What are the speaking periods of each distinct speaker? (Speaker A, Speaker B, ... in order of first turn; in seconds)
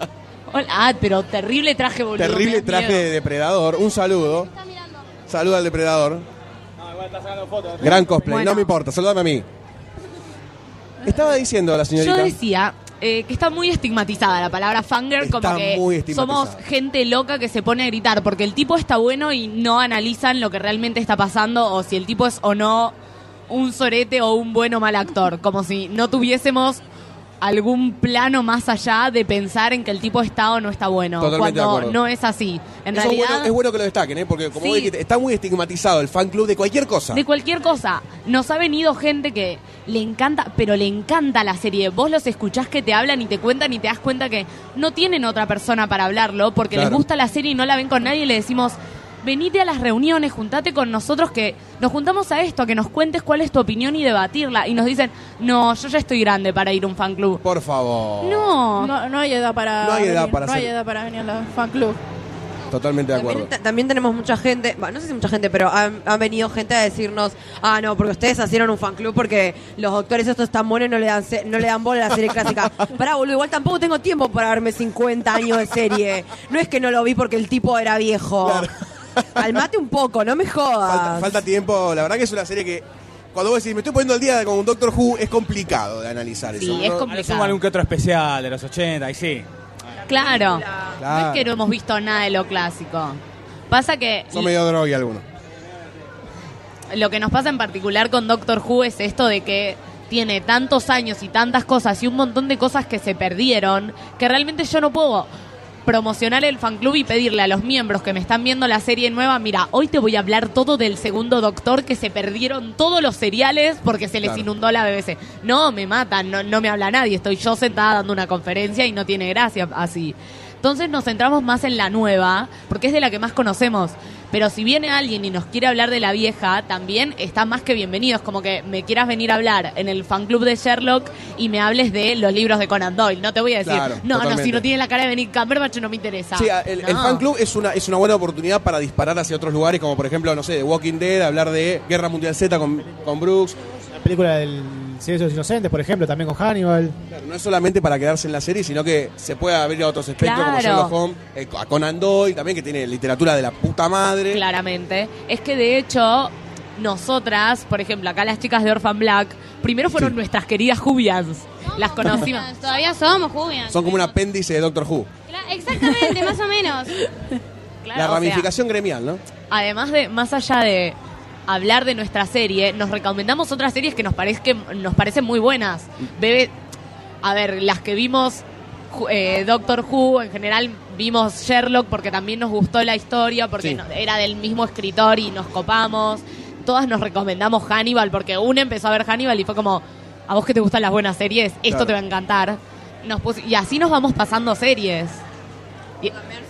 Speaker A: 0.5-3.1, 7.8-8.7, 12.0-22.9, 23.5-26.8, 27.4-33.5, 34.5-34.9, 37.1-57.4, 58.2-58.9, 86.5-87.6, 90.1-94.5, 96.9-105.3, 105.8-137.2, 150.2-150.9, 154.3-162.5, 167.8-168.5, 169.5-170.9, 171.5-176.5, 177.2-195.2
Speaker B: 2.2-4.5, 5.3-6.2, 7.8-9.4, 11.0-12.3, 15.2-16.6, 31.2-32.0, 32.9-37.2, 46.7-47.0, 57.4-58.5, 59.8-60.7, 62.7-63.5, 78.4-78.7, 79.2-79.5, 80.8-87.1, 91.0-91.5, 94.3-95.2, 133.6-134.6, 136.3-143.6, 147.1-154.4, 163.7-165.1, 167.9-169.2, 191.7-191.9
Speaker C: 58.8-62.0
Speaker D: 63.1-78.7, 79.4-81.3
Speaker E: 87.0-89.5
Speaker F: 144.0-146.9
Speaker G: 161.7-164.1, 165.3-166.9